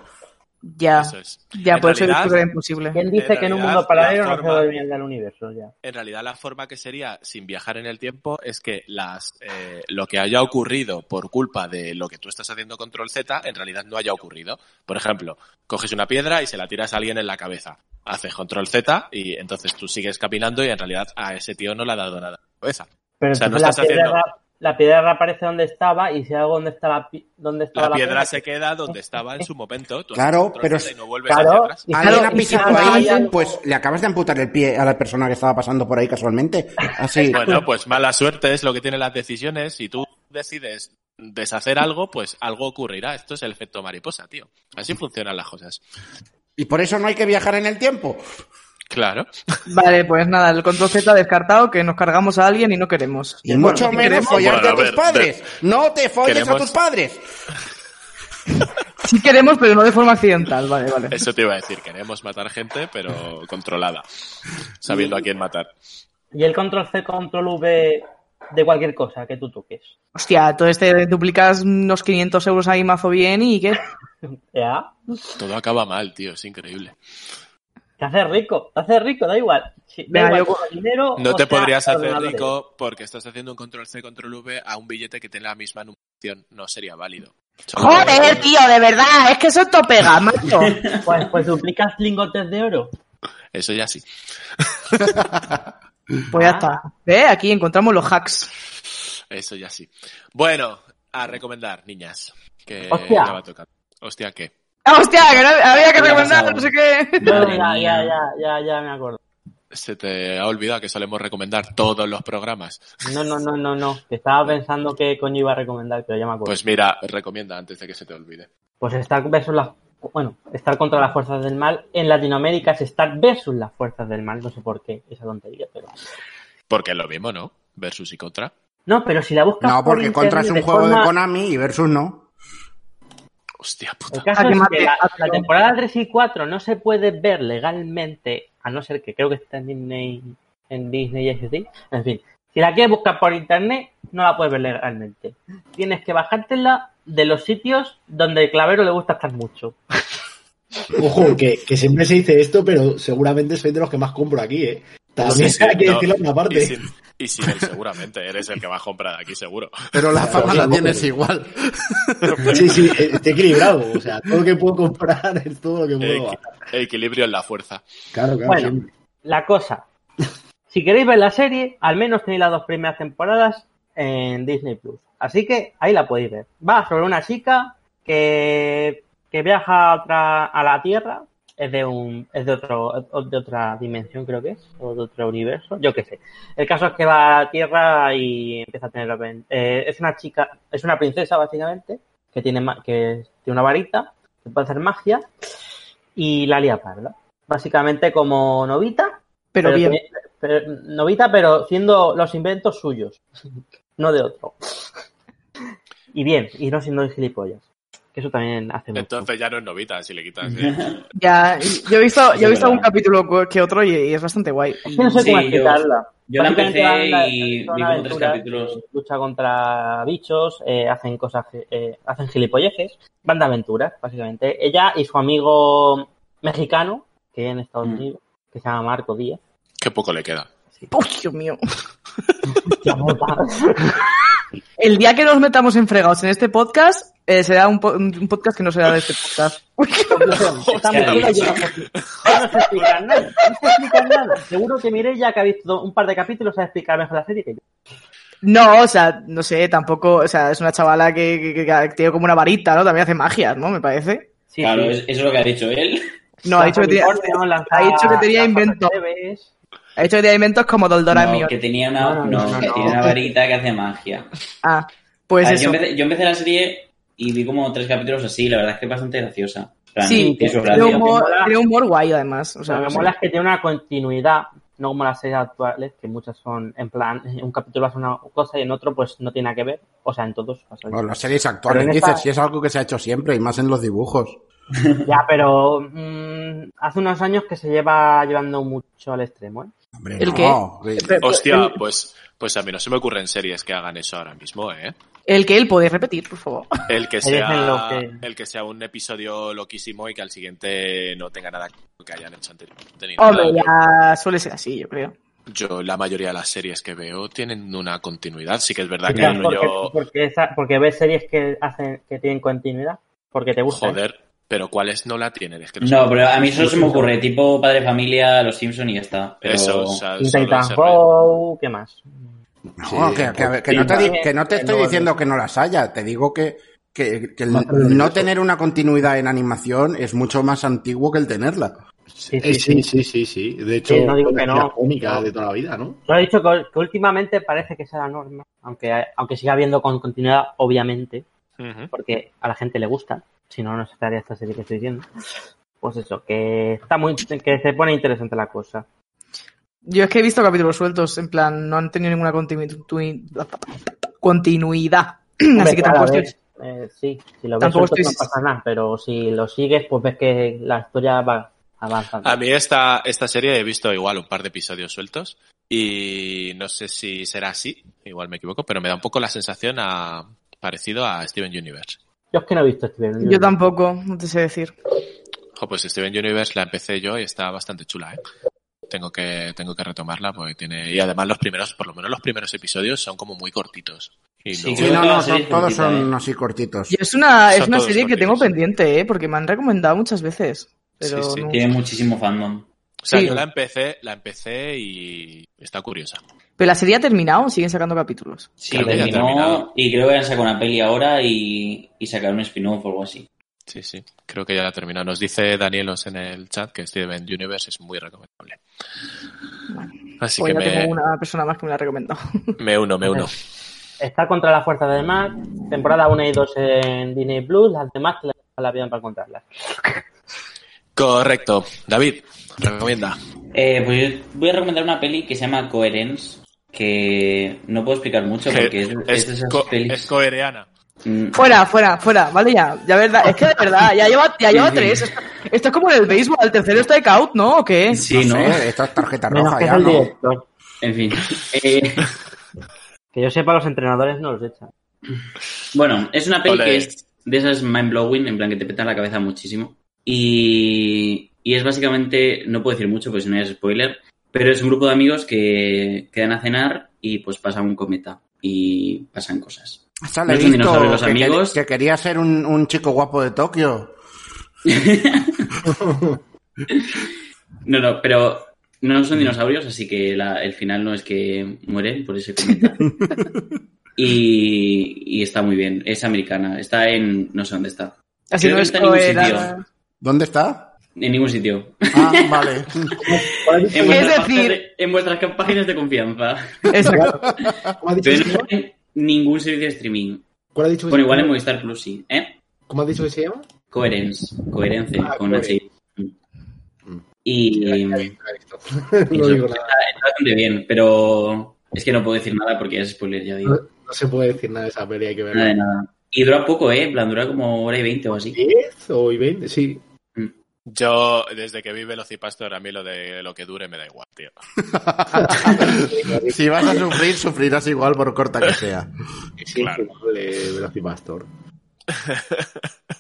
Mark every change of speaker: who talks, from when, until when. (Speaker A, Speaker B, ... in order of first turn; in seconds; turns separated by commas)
Speaker A: 0.7-3.0, Speaker B: 1.0-2.4, Speaker C: 2.9-5.7, Speaker B: 3.1-4.7, Speaker B: 5.8-24.2, Speaker C: 23.2-28.4, Speaker B: 27.8-31.8, Speaker D: 30.1-30.9, Speaker C: 31.3-33.6, Speaker D: 31.9-37.6, Speaker A: 32.0-33.3, Speaker C: 37.2-37.5, Speaker B: 37.3-45.8, Speaker D: 46.6-48.2, Speaker B: 48.9-49.3, Speaker A: 49.7-54.5, Speaker D: 53.5-57.2, Speaker C: 53.6-54.2, Speaker B: 54.2-55.4, Speaker B: 56.2-56.8, Speaker A: 59.0-61.2, Speaker B: 61.1-64.0, Speaker B: 64.8-65.7, Speaker C: 64.9-65.2, Speaker C: 66.3-69.9, Speaker A: 70.2-73.8, Speaker C: 74.5-75.4, Speaker B: 75.4-77.0, Speaker C: 78.0-82.5, Speaker A: 80.1-80.6, Speaker B: 81.2-88.5, Speaker A: 87.7-90.8, Speaker C: 88.0-88.3, Speaker E: 90.7-91.0, Speaker C: 91.0-92.9, Speaker B: 93.5-94.0, Speaker B: 94.6-95.2, Speaker C: 96.3-96.7, Speaker A: 96.3-98.5, Speaker B: 99.3-104.5, Speaker C: 102.9-103.4, Speaker A: 104.9-107.3, Speaker C: 106.0-106.7, Speaker C: 107.2-109.2, Speaker B: 107.3-107.6, Speaker B: 109.7-113.0, Speaker C: 113.0-116.6, Speaker B: 116.5-118.5, Speaker C: 118.8-125.9, Speaker B: 126.7-128.5, Speaker C: 128.9-131.1, Speaker D: 129.6-132.3, Speaker B: 133.6-134.3, Speaker C: 134.1-149.8, Speaker A: 134.3-135.5, Speaker F: 150.9-156.8, Speaker B: 155.2-160.5, Speaker D: 159.9-162.8, Speaker F: 160.2-161.1, Speaker B: 162.3-162.9, Speaker F: 162.5-166.6, Speaker B: 166.0-167.8, Speaker F: 168.1-168.9, Speaker C: 168.5-168.7, Speaker C: 169.2-169.8, Speaker C: 170.7-195.3, Speaker C: 196.2-204.9, Speaker A: 199.5-200.0, Speaker C: 206.1-209.3, Speaker B: 208.9-210.8, Speaker E: 210.4-211.0, Speaker A: 211.2-214.8, Speaker E: 212.3-212.9, Speaker C: 214.9-229.4, Speaker E: 215.1-218.8, Speaker B: 229.8-230.5, Speaker A: 230.9-231.6, Speaker C: 232.7-234.0, Speaker A: 234.8-240.4, Speaker C: 240.1-247.6, Speaker B: 240.7-242.3, Speaker E: 240.9-241.7, Speaker A: 248.4-254.3, Speaker C: 254.5-255.0, Speaker E: 254.6-256.0, Speaker A: 256.4-258.9, Speaker C: 256.5-259.5, Speaker A: 260.0-261.5, Speaker E: 261.1-264.3, Speaker C: 262.0-263.3, Speaker A: 262.6-262.9, Speaker A: 264.6-265.8, Speaker E: 265.4-271.1, Speaker A: 270.0-273.1, Speaker C: 270.1-271.5, Speaker C: 272.7-282.3, Speaker D: 280.9-284.4, Speaker C: 285.1-289.7, Speaker D: 290.0-291.2, Speaker A: 290.2-291.8, Speaker B: 291.2-294.9, Speaker A: 295.3-296.7, Speaker B: 296.9-303.7, Speaker C: 297.2-298.2, Speaker A: 303.2-305.1, Speaker B: 305.5-309.9, Speaker E: 309.1-309.4, Speaker C: 309.1-314.0, Speaker B: 313.7-316.7, Speaker E: 315.8-320.0, Speaker B: 319.4-321.0, Speaker C: 320.2-322.4, Speaker F: 322.7-323.9, Speaker D: 322.8-331.7, Speaker C: 323.7-325.2, Speaker F: 327.5-328.3, Speaker C: 332.3-332.9, Speaker F: 332.4-336.0, Speaker C: 333.9-335.2, Speaker C: 336.1-341.2, Speaker B: 341.6-341.9, Speaker C: 341.9-345.1, Speaker C: 345.8-348.9, Speaker A: 349.9-356.3, Speaker C: 355.6-362.4, Speaker A: 357.6-358.3, Speaker B: 362.2-372.0, Speaker C: 372.3-373.6, Speaker A: 373.2-374.8, Speaker B: 375.6-378.2, Speaker B: 378.9-385.0, Speaker E: 384.5-386.1, Speaker D: 384.8-387.0, Speaker A: 386.9-391.7, Speaker B: 387.5-388.6, Speaker B: 391.0-391.5, Speaker E: 391.5-392.7, Speaker B: 393.0-396.2, Speaker A: 393.1-393.4, Speaker A: 396.6-398.5, Speaker E: 398.6-403.3, Speaker B: 398.7-399.6, Speaker B: 403.7-408.6, Speaker A: 409.7-412.5, Speaker B: 410.2-410.9, Speaker B: 412.6-413.4, Speaker C: 413.1-413.3, Speaker C: 414.0-419.9, Speaker B: 421.0-423.2, Speaker E: 423.5-430.1, Speaker B: 428.5-430.7, Speaker E: 431.0-431.6, Speaker A: 431.4-438.0, Speaker E: 434.6-434.9, Speaker E: 437.9-438.6, Speaker D: 438.1-440.1, Speaker C: 439.3-440.5, Speaker E: 440.8-442.1, Speaker C: 443.1-444.7, Speaker E: 445.7-461.6, Speaker B: 446.4-447.0, Speaker D: 460.1-463.9, Speaker E: 464.7-465.5, Speaker F: 465.6-466.2, Speaker E: 466.7-467.0, Speaker E: 467.6-472.8, Speaker E: 474.0-479.5, Speaker A: 478.3-479.6, Speaker D: 480.0-480.7, Speaker E: 481.0-482.5, Speaker D: 481.9-482.9, Speaker F: 483.0-484.1, Speaker E: 483.7-486.7, Speaker A: 483.9-484.6, Speaker A: 486.7-487.2, Speaker F: 486.9-487.2, Speaker F: 487.8-488.5, Speaker E: 488.0-490.3, Speaker F: 490.5-491.3, Speaker E: 490.9-492.4, Speaker F: 492.7-493.5, Speaker E: 493.7-496.1, Speaker F: 495.0-495.6, Speaker F: 496.9-499.7, Speaker E: 497.2-498.1, Speaker E: 499.1-503.6, Speaker F: 503.4-505.6, Speaker E: 505.3-508.4, Speaker F: 508.3-509.8, Speaker B: 510.7-514.3, Speaker D: 514.7-518.9, Speaker F: 515.2-516.8, Speaker F: 519.4-521.3, Speaker B: 519.6-519.9, Speaker B: 521.9-522.7